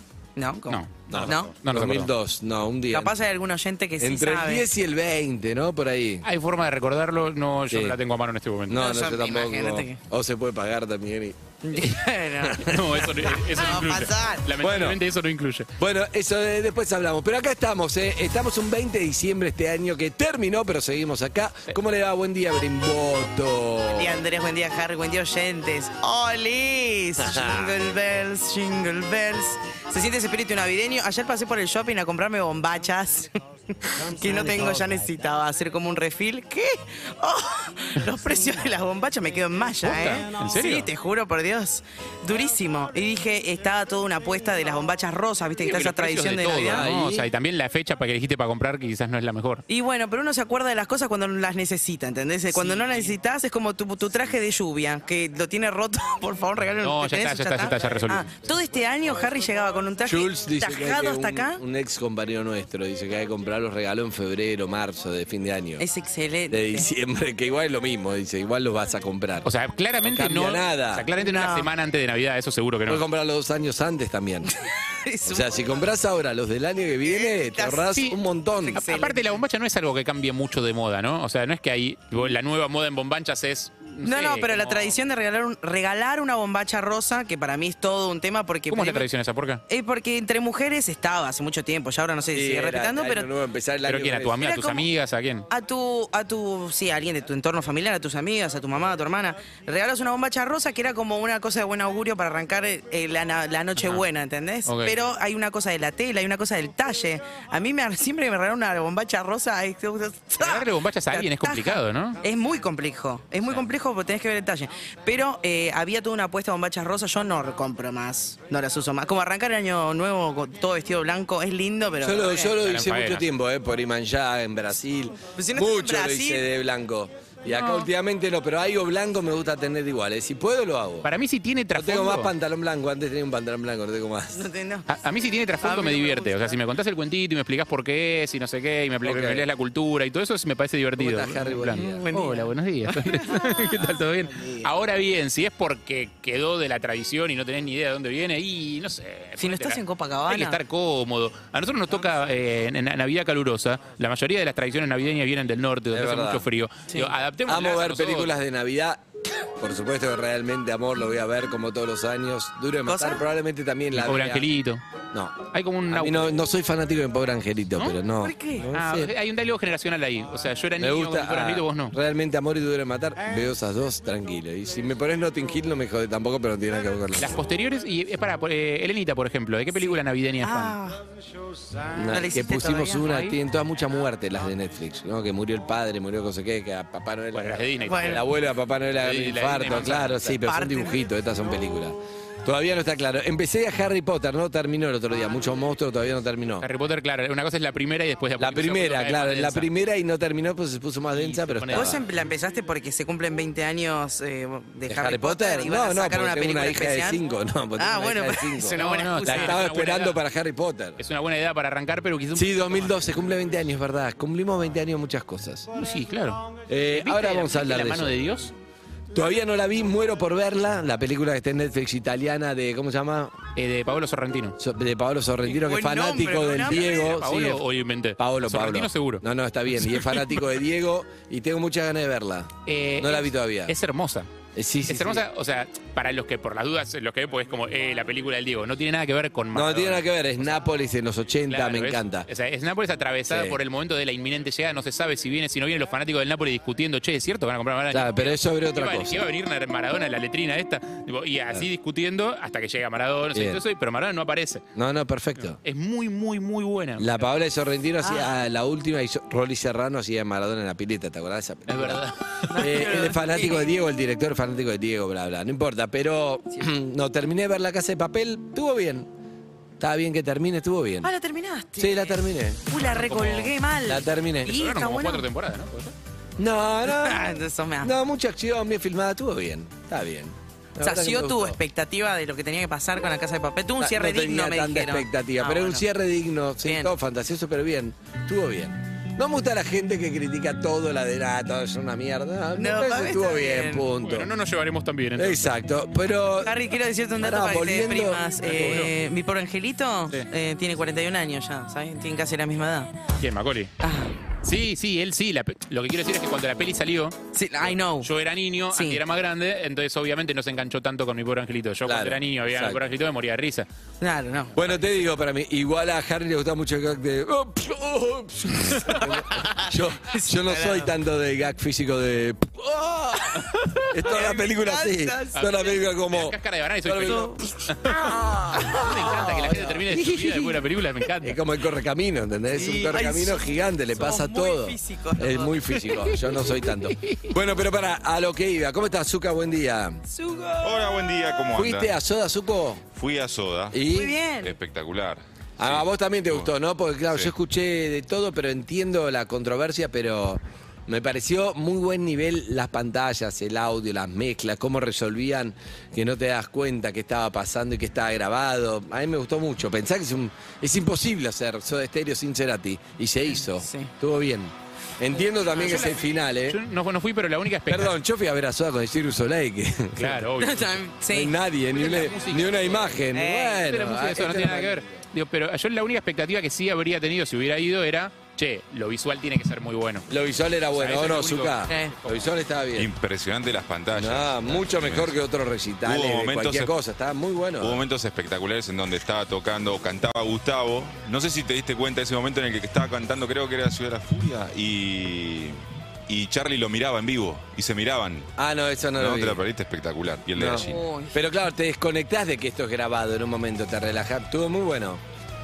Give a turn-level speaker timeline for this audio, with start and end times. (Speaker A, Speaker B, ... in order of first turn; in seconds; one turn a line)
Speaker A: 0.4-1.5
Speaker B: 0.7-2.1
Speaker C: 1.1-3.1
Speaker A: 2.9-4.7
Speaker C: 4.0-6.2
Speaker B: 6.2-8.8
Speaker C: 7.7-8.0
Speaker C: 8.7-11.6
Speaker A: 8.7-10.0
Speaker A: 11.6-14.4
Speaker B: 12.6-15.7
Speaker C: 14.6-15.0
Speaker C: 15.8-24.2
Speaker A: 23.9-33.3
Speaker C: 27.2-27.8
Speaker A: 33.8-46.8
Speaker C: 33.9-35.1
Speaker B: 39.8-40.9
Speaker B: 45.6-49.6
Speaker C: 46.7-47.3
Speaker A: 49.7-61.6
Speaker B: 52.5-53.2
Speaker B: 56.8-58.3
Speaker C: 60.0-65.8
Speaker A: 65.8-66.9
Speaker C: 66.5-69.5
Speaker B: 69.4-73.0
Speaker C: 70.0-71.1
Speaker A: 71.2-71.7
Speaker C: 72.9-74.5
Speaker A: 75.0-75.6
Speaker C: 75.2-78.8
Speaker A: 77.0-78.0
Speaker A: 78.6-79.3
Speaker B: 78.7-85.0
Speaker A: 84.0-89.1
Speaker B: 88.7-89.6
Speaker A: 89.7-93.3
Speaker C: 92.3-94.4
Speaker B: 93.9-95.5
Speaker A: 94.4-94.9
Speaker A: 95.5-122.6
Speaker B: 103.8-104.0
Speaker B: 104.7-105.0
Speaker B: 110.4-112.2
Speaker C: 122.0-131.1
Speaker B: 122.6-123.3
Speaker A: 125.4-126.4
Speaker B: 127.5-127.9
Speaker B: 131.0-132.3
Speaker C: 131.7-134.5
Speaker A: 134.3-134.9
Speaker B: 134.9-158.3
Speaker A: 135.6-136.5
Speaker C: 139.0-139.4
Speaker C: 141.0-142.0
Speaker A: 141.7-142.5
Speaker A: 143.3-144.7
Speaker A: 149.4-150.6
Speaker C: 155.9-156.5
Speaker C: 157.5-159.0
Speaker C: 159.6-164.5
Speaker A: 162.9-163.2
Speaker B: 163.9-164.8
Speaker C: 165.1-169.1
Speaker B: 165.5-166.3
Speaker A: 168.2-168.7
Speaker B: 168.7-171.9
Speaker C: 170.8-177.4
Speaker B: 177.2-180.8
Speaker A: 179.8-181.0
Speaker C: 181.9-196.7
Speaker A: 182.1-183.3
Speaker B: 187.3-188.2
Speaker A: 187.9-188.2
Speaker B: 189.0-190.4
Speaker A: 190.5-190.9
Speaker B: 196.6-199.7
Speaker C: 198.4-202.0
Speaker B: 201.1-202.0
Speaker A: 201.7-207.2
Speaker C: 204.9-211.0
Speaker A: 207.8-209.6
Speaker B: 208.7-210.2
Speaker B: 211.0-212.9
Speaker C: 212.4-215.7
Speaker B: 215.8-218.5
Speaker C: 216.7-218.2
Speaker C: 219.1-223.3
Speaker B: 223.6-224.6
Speaker C: 224.6-227.7
Speaker A: 225.5-227.1
Speaker B: 226.7-229.2
Speaker C: 228.2-233.8
Speaker B: 229.8-230.4
Speaker B: 232.7-234.3
Speaker C: 234.6-235.2
Speaker B: 234.9-240.1
Speaker C: 239.5-242.3
Speaker B: 241.5-254.7
Speaker C: 243.3-243.6
Speaker C: 247.9-249.3
Speaker C: 253.3-253.6
Speaker C: 254.8-255.6
Speaker B: 255.4-257.3
Speaker C: 257.0-262.0
Speaker A: 258.0-258.3
Speaker B: 261.7-262.6
Speaker A: 262.5-263.7
Speaker C: 262.6-269.1
Speaker C: 269.8-271.1
Speaker A: 271.0-275.3
Speaker C: 271.8-272.7
Speaker B: 272.8-273.5
Speaker C: 273.9-274.6
Speaker B: 274.5-275.9
Speaker C: 276.4-281.6
Speaker A: 276.9-277.9
Speaker A: 280.8-285.9
Speaker C: 283.8-294.3
Speaker A: 286.6-286.9
Speaker A: 292.6-293.9
Speaker B: 294.0-295.5
Speaker C: 295.2-296.6
Speaker A: 296.4-302.9
Speaker C: 297.2-298.2
Speaker B: 298.4-298.9
Speaker B: 303.2-303.7
Speaker A: 303.8-304.1
Speaker B: 304.4-307.2
Speaker A: 307.3-308.1
Speaker B: 308.0-313.7
Speaker A: 308.7-309.0
Speaker C: 311.8-312.8
Speaker A: 314.0-314.6
Speaker C: 314.6-323.4
Speaker A: 319.4-320.9
Speaker B: 323.5-323.8
Speaker C: 323.9-330.0
Speaker A: 324.0-325.5
Speaker B: 325.3-328.1
Speaker A: 327.0-327.4
Speaker B: 328.6-331.4
Speaker A: 328.7-329.2
Speaker C: 331.2-340.0
Speaker A: 332.6-335.9
Speaker B: 337.0-337.4
Speaker A: 340.1-341.0
Speaker D: 340.6-341.9
Speaker C: 341.6-342.9
Speaker D: 342.9-343.8
Speaker C: 343.7-344.2
Speaker A: 343.9-344.6
Speaker D: 344.4-346.5
Speaker C: 345.6-366.6
Speaker A: 363.6-363.9
Speaker A: 365.6-365.9
Speaker B: 365.6-368.0
Speaker C: 367.7-370.3
Speaker B: 370.0-370.8
Speaker A: 370.4-371.3
Speaker C: 371.1-375.0
Speaker B: 371.7-373.0
Speaker A: 373.1-373.6
Speaker B: 373.6-380.1
Speaker C: 380.1-382.9
Speaker B: 380.7-382.3
Speaker A: 381.7-381.9
Speaker D: 382.8-385.2
Speaker C: 383.9-387.8
Speaker D: 385.8-386.7
Speaker D: 387.6-398.3
Speaker C: 398.4-399.4
Speaker D: 399.0-400.8
Speaker C: 400.3-405.0
Speaker A: 400.5-401.2